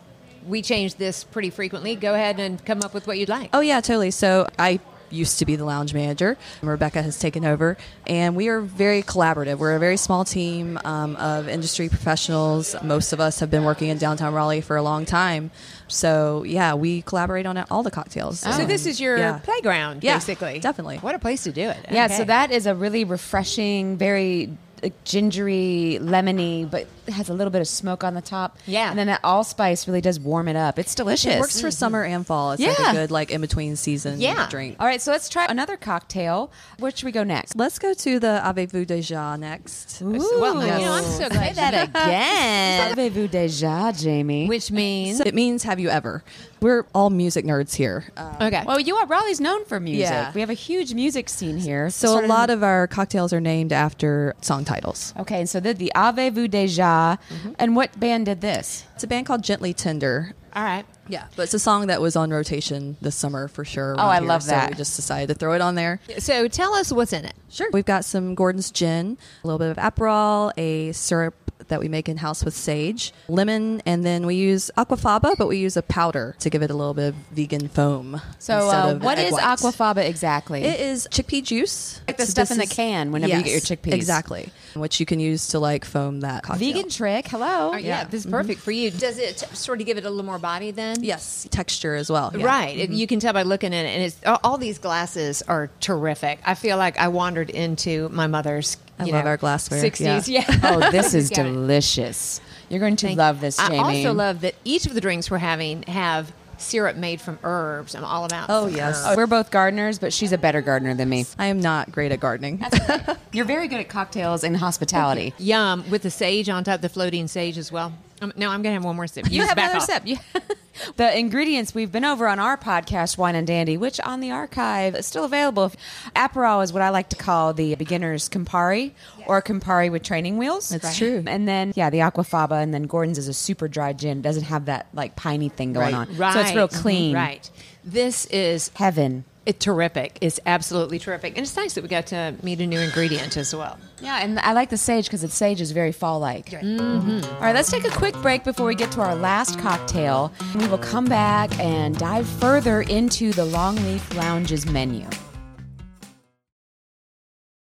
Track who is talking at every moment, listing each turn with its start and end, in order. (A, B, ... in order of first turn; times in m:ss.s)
0:00.4-0:03.5 A
0:03.5-0:19.4 B
0:18.4-0:18.8 C
0:18.4-0:22.3 A
0:20.0-0:21.0 B
0:21.9-0:31.6 C
0:28.7-0:29.0 A
0:31.2-0:34.8 B
0:31.5-0:32.0 A
0:32.6-0:33.0 C
0:34.1-0:34.6 A
0:34.8-0:37.5 C
0:37.5-0:41.6 B
0:40.0-0:44.5 C
0:40.3-0:42.9 A
0:44.4-0:45.3 A
0:45.0-0:48.6 B
0:48.4-0:48.7 A
0:48.6-0:52.5 C
0:49.9-0:50.4 B
0:51.9-0:55.1 B
0:55.2-0:58.8 C
0:57.3-0:57.6 B
0:59.0-1:00.3 B
1:00.5-1:00.8 A
1:01.1-1:06.0 B
1:03.9-1:04.8 C
1:06.1-1:07.4 A
1:07.5-1:19.8 B
1:18.4-1:20.8 C
1:18.8-1:19.3 A
1:20.6-1:26.9 B
1:22.1-1:24.2 C
1:26.5-1:27.8 C
1:27.7-1:31.1 A
1:27.8-1:28.5 B
1:31.0-1:33.0 B
1:32.3-1:41.6 A
1:39.0-1:41.0 B
1:40.6-1:44.2 C
1:43.0-1:49.2 A
1:48.5-1:49.2 B
1:49.0-1:51.3 C
1:51.4-1:53.2 B
1:52.6-1:55.3 C
1:55.3-1:59.9 A
1:59.2-2:17.3 C
2:10.7-2:11.3 B
2:10.8-2:11.1 A
2:15.7-2:18.7 A
2:18.7-2:19.2 C
2:19.4-2:23.8 A
2:24.0-2:26.6 C
2:26.5-2:27.4 A
2:27.2-2:35.2 C